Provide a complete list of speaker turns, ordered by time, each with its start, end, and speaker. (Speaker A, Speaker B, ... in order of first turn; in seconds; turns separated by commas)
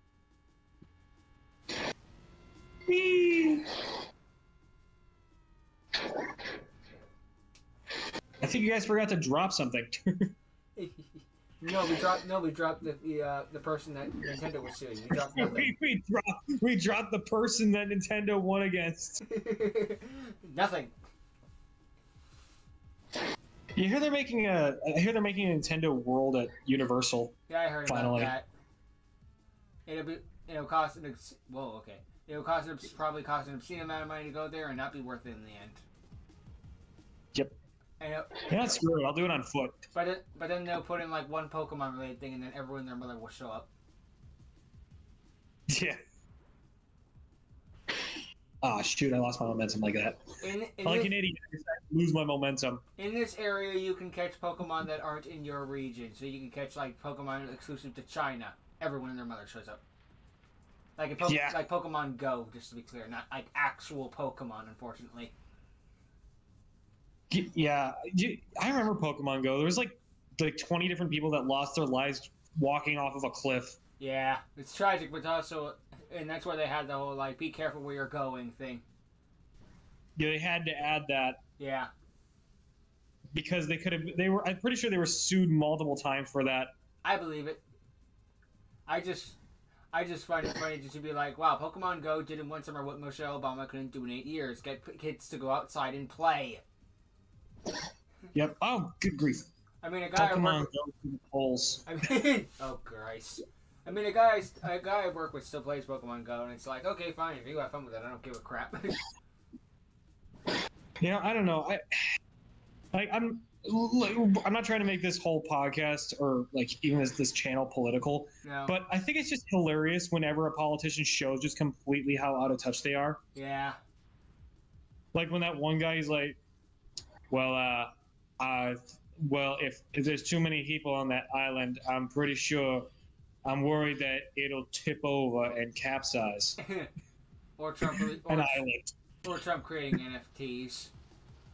Speaker A: 2.9-3.8, Speaker A: 8.4-10.3, Speaker B: 10.8-15.7, Speaker A: 15.3-19.2, Speaker B: 19.2-20.9, Speaker A: 23.8-27.3, Speaker B: 27.5-28.5, Speaker A: 27.9-28.3, Speaker B: 29.9-35.8, Speaker B: 38.0-38.5, Speaker A: 38.5-39.9, Speaker B: 39.9-43.7, Speaker A: 45.7-46.0, Speaker A: 48.6-50.2, Speaker B: 50.4-51.1, Speaker A: 50.8-52.8, Speaker B: 53.0-59.8, Speaker B: 61.0-65.3, Speaker A: 61.2-61.6, Speaker A: 67.3-73.8, Speaker B: 74.0-78.8, Speaker A: 80.2-81.4, Speaker B: 81.6-81.9, Speaker A: 83.3-86.7, Speaker B: 87.0-87.6, Speaker B: 88.9-89.4, Speaker B: 89.9-96.6, Speaker A: 98.3-99.5, Speaker B: 99.8-100.7, Speaker A: 100.2-101.8, Speaker B: 101.9-109.0, Speaker A: 111.0-111.8, Speaker A: 112.9-123.2, Speaker B: 118.5-118.8, Speaker B: 123.3-123.8, Speaker A: 125.1-126.4, Speaker A: 127.3-132.9, Speaker A: 133.4-136.6, Speaker B: 136.6-136.9, Speaker B: 137.6-138.7, Speaker A: 137.8-138.9, Speaker B: 139.2-140.9